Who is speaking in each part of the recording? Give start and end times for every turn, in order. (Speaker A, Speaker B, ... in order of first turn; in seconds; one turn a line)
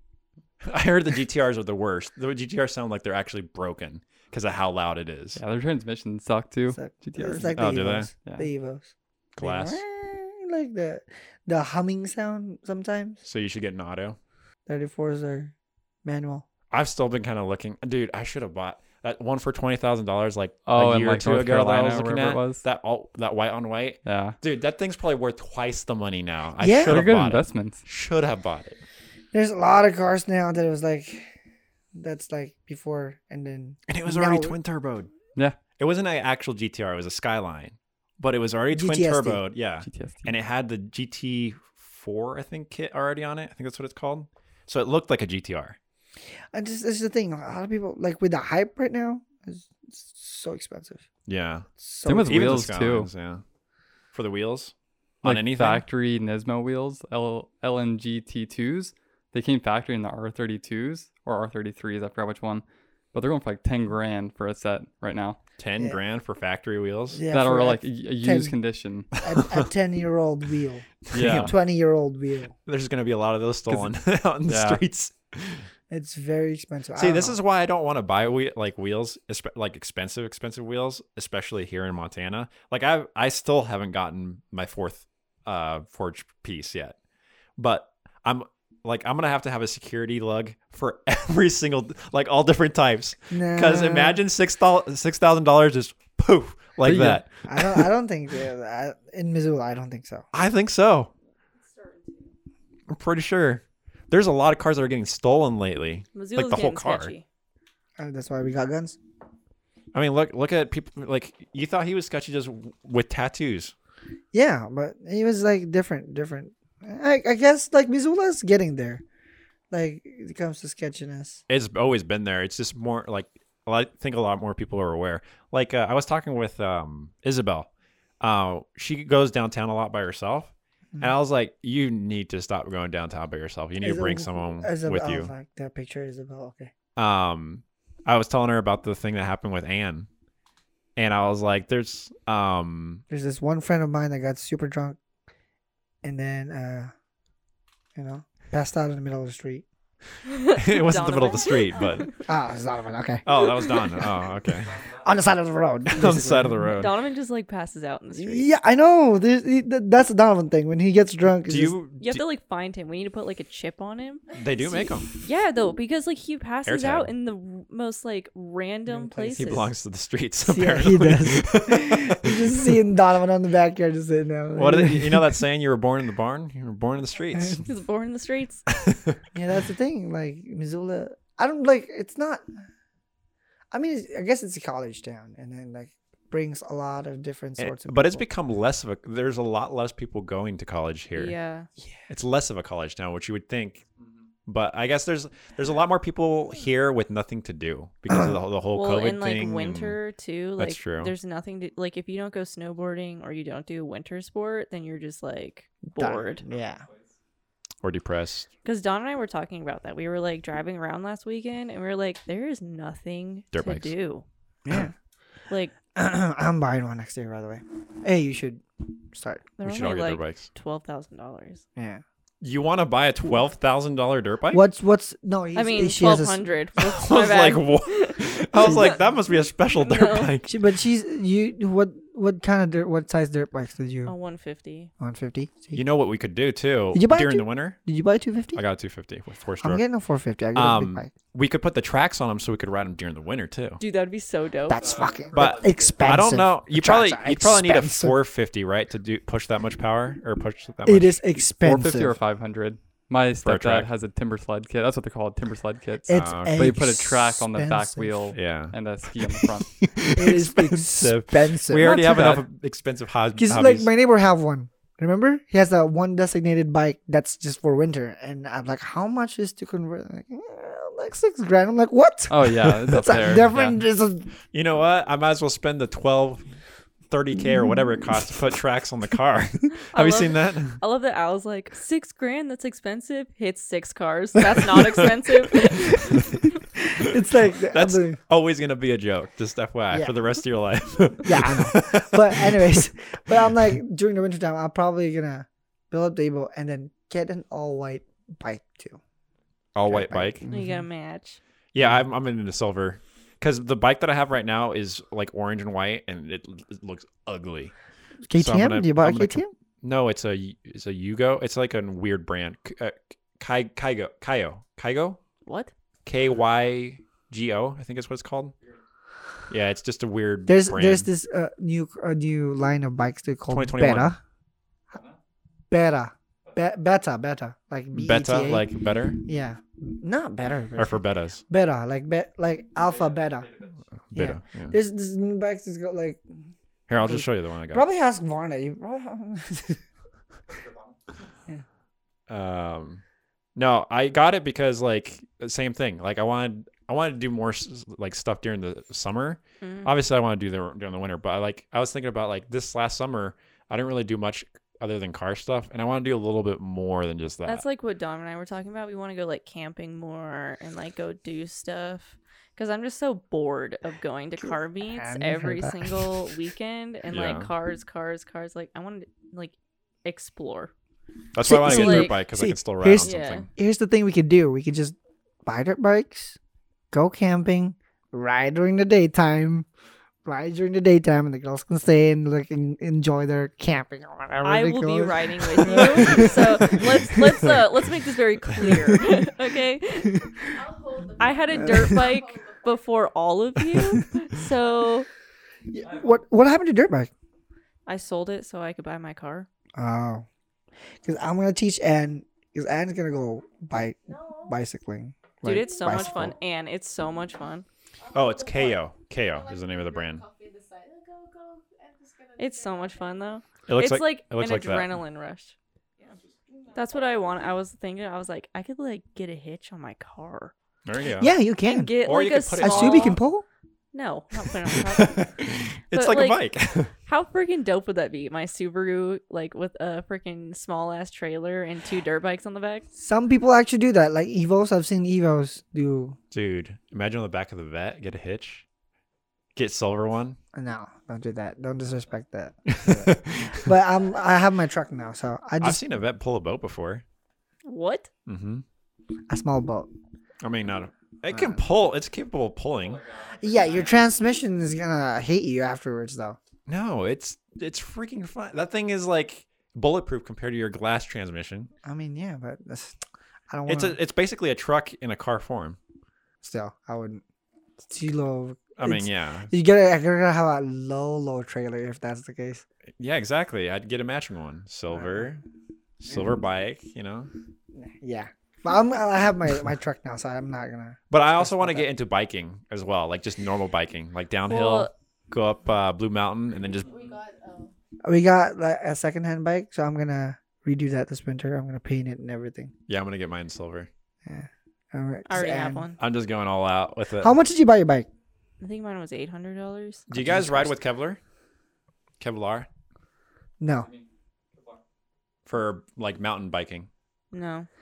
Speaker A: 0.6-5.4
Speaker B: 5.4-8.5
Speaker C: 6.7-13.2
Speaker A: 7.5-8.1
Speaker A: 9.4-9.8
Speaker A: 13.2-14.2
Speaker C: 14.7-15.5
Speaker C: 16.1-16.5
Speaker A: 16.7-28.8
Speaker B: 20.7-22.6
Speaker B: 24.1-24.4
Speaker C: 26.6-27.0
Speaker B: 26.9-27.8
Speaker C: 29.3-31.3
Speaker C: 31.9-34.6
Speaker A: 33.9-35.1
Speaker A: 35.8-45.8
Speaker C: 38.7-39.4
Speaker B: 39.8-40.3
Speaker C: 46.5-51.0
Speaker A: 51.3-51.7
Speaker C: 51.8-52.7
Speaker B: 52.1-53.1
Speaker A: 52.2-53.4
Speaker A: 54.1-55.8
Speaker B: 55.2-65.4
Speaker A: 65.6-67.2
Speaker C: 67.1-68.6
Speaker B: 67.3-69.1
Speaker C: 69.2-72.5
Speaker A: 69.2-69.7
Speaker A: 71.1-71.5
Speaker B: 71.1-71.5
Speaker A: 72.7-75.7
Speaker B: 74.5-74.8
Speaker C: 75.9-77.4
Speaker A: 77.0-87.0
Speaker A: 87.6-97.9
Speaker C: 93.3-94.2
Speaker B: 96.8-97.3
Speaker C: 97.5-100.3
Speaker A: 100.3-101.1
Speaker D: 101.6-102.3
Speaker A: 102.9-107.2
Speaker E: 106.1-107.2
Speaker C: 108.0-109.0
Speaker A: 109.9-113.7
Speaker C: 114.3-119.0
Speaker C: 119.7-121.4
Speaker A: 121.5-127.7
Speaker A: 128.2-135.3
Speaker C: 133.8-136.7
Speaker A: 137.0-140.1
Speaker A: 141.0-143.0
Speaker C: 143.1-145.0
Speaker C: 146.0-146.9
Speaker C: 147.9-149.7
Speaker E: 150.3-152.2
Speaker A: 150.6-152.1
Speaker C: 152.3-153.8
Speaker A: 153.3-154.8
Speaker C: 155.0-156.7
Speaker A: 155.9-156.9
Speaker E: 156.7-158.5
Speaker C: 158.1-161.8
Speaker A: 161.5-162.3
Speaker E: 162.0-169.7
Speaker A: 164.3-165.1
Speaker A: 166.7-167.1
Speaker C: 168.9-169.6
Speaker A: 169.4-172.7
Speaker C: 170.4-175.4
Speaker A: 174.6-177.7
Speaker E: 177.7-178.7
Speaker A: 178.9-179.2
Speaker C: 179.3-182.4
Speaker C: 183.7-188.2
Speaker A: 187.6-191.3
Speaker E: 191.2-191.7
Speaker A: 192.1-193.8
Speaker A: 194.5-200.0
Speaker C: 198.1-198.3
Speaker E: 198.7-206.4
Speaker A: 200.6-201.1
Speaker C: 206.0-206.8
Speaker B: 206.5-207.1
Speaker A: 207.8-208.5
Speaker E: 208.7-214.2
Speaker A: 213.5-213.9
Speaker C: 214.7-214.9
Speaker E: 215.5-215.7
Speaker C: 215.9-219.5
Speaker E: 219.6-221.6
Speaker A: 219.6-220.5
Speaker C: 221.8-222.0
Speaker A: 222.4-224.6
Speaker C: 224.5-226.4
Speaker E: 225.6-229.0
Speaker A: 226.8-230.5
Speaker E: 229.8-230.3
Speaker C: 230.5-234.1
Speaker E: 234.1-234.9
Speaker C: 235.0-235.8
Speaker A: 235.7-237.8
Speaker C: 236.9-238.6
Speaker A: 238.6-239.8
Speaker C: 239.6-241.1
Speaker A: 240.6-243.8
Speaker E: 243.8-245.0
Speaker C: 244.7-248.2
Speaker B: 244.8-246.0
Speaker A: 245.3-251.2
Speaker C: 250.8-252.2
Speaker B: 251.6-259.9
Speaker A: 253.4-253.9
Speaker C: 256.1-258.4
Speaker A: 256.1-256.6
Speaker A: 258.3-258.8
Speaker A: 259.9-263.9
Speaker C: 260.1-262.4
Speaker B: 262.0-262.4
Speaker C: 263.4-274.3
Speaker B: 272.3-273.8
Speaker A: 274.5-276.5
Speaker A: 277.1-280.8
Speaker C: 277.4-278.1
Speaker E: 279.9-286.5
Speaker C: 287.0-288.2
Speaker A: 287.7-292.8
Speaker C: 291.2-299.0
Speaker A: 299.8-300.5
Speaker C: 299.9-300.8
Speaker E: 300.5-301.4
Speaker A: 301.7-307.7
Speaker C: 301.8-302.0
Speaker C: 308.3-309.5
Speaker A: 308.3-315.2
Speaker E: 315.4-315.7
Speaker A: 316.1-318.5
Speaker A: 319.5-321.1
Speaker C: 320.5-324.2
Speaker A: 323.5-324.1
Speaker B: 324.9-325.2
Speaker C: 325.7-328.7
Speaker A: 327.9-329.2
Speaker C: 329.2-333.5
Speaker A: 330.8-331.4
Speaker B: 332.8-333.8
Speaker A: 334.1-334.8
Speaker C: 334.1-336.4
Speaker A: 336.9-337.8
Speaker C: 337.0-339.8
Speaker B: 340.5-341.0
Speaker A: 342.3-343.0
Speaker A: 343.6-357.6
Speaker E: 349.6-349.9
Speaker E: 357.5-370.7
Speaker C: 364.8-366.4
Speaker A: 367.1-367.5
Speaker A: 371.3-373.5
Speaker C: 371.4-376.4
Speaker E: 371.5-372.2
Speaker E: 373.0-373.5
Speaker C: 376.9-379.7
Speaker C: 380.2-387.5
Speaker E: 384.4-390.2
Speaker C: 388.6-389.0
Speaker D: 390.5-393.0
Speaker E: 391.2-395.1
Speaker C: 391.6-392.0
Speaker C: 395.7-397.1
Speaker E: 397.9-399.5
Speaker C: 399.8-400.3
Speaker C: 401.0-406.4
Speaker D: 404.1-404.6
Speaker E: 405.4-407.6
Speaker D: 405.5-406.4
Speaker D: 408.0-413.3
Speaker A: 408.1-410.2
Speaker E: 412.4-415.6
Speaker A: 413.7-414.9
Speaker D: 416.0-417.5
Speaker E: 416.7-420.5
Speaker A: 420.9-421.4
Speaker C: 421.2-422.0
Speaker E: 421.6-423.2
Speaker A: 422.0-423.2
Speaker C: 422.6-423.4
Speaker E: 423.9-425.3
Speaker A: 424.8-426.9
Speaker E: 425.9-426.5
Speaker E: 427.0-432.9
Speaker C: 433.0-436.2
Speaker A: 436.3-438.6
Speaker A: 439.6-440.4
Speaker C: 440.5-445.8
Speaker A: 442.7-443.7
Speaker A: 445.6-447.0
Speaker E: 447.7-448.1
Speaker A: 448.3-448.6
Speaker C: 449.3-449.9
Speaker A: 450.4-453.0
Speaker C: 451.3-451.6
Speaker B: 452.8-454.1
Speaker C: 453.4-456.4
Speaker A: 456.7-461.7
Speaker C: 461.8-463.0
Speaker C: 463.5-464.0
Speaker A: 463.7-465.8
Speaker C: 466.4-467.2
Speaker C: 467.8-472.6
Speaker A: 468.8-469.5
Speaker A: 473.0-475.4
Speaker C: 474.9-475.4
Speaker A: 476.0-477.3
Speaker C: 477.7-481.9
Speaker A: 481.1-486.9
Speaker E: 484.5-484.9
Speaker D: 486.7-487.7
Speaker C: 488.1-492.7
Speaker A: 492.9-493.9
Speaker C: 494.2-495.9
Speaker E: 495.3-496.0
Speaker A: 496.0-497.4
Speaker C: 497.2-498.1
Speaker E: 498.6-500.7
Speaker A: 500.1-501.2
Speaker C: 500.2-500.7
Speaker A: 502.2-502.7
Speaker C: 503.6-503.9
Speaker B: 503.7-504.8
Speaker A: 505.5-506.9
Speaker E: 507.3-507.7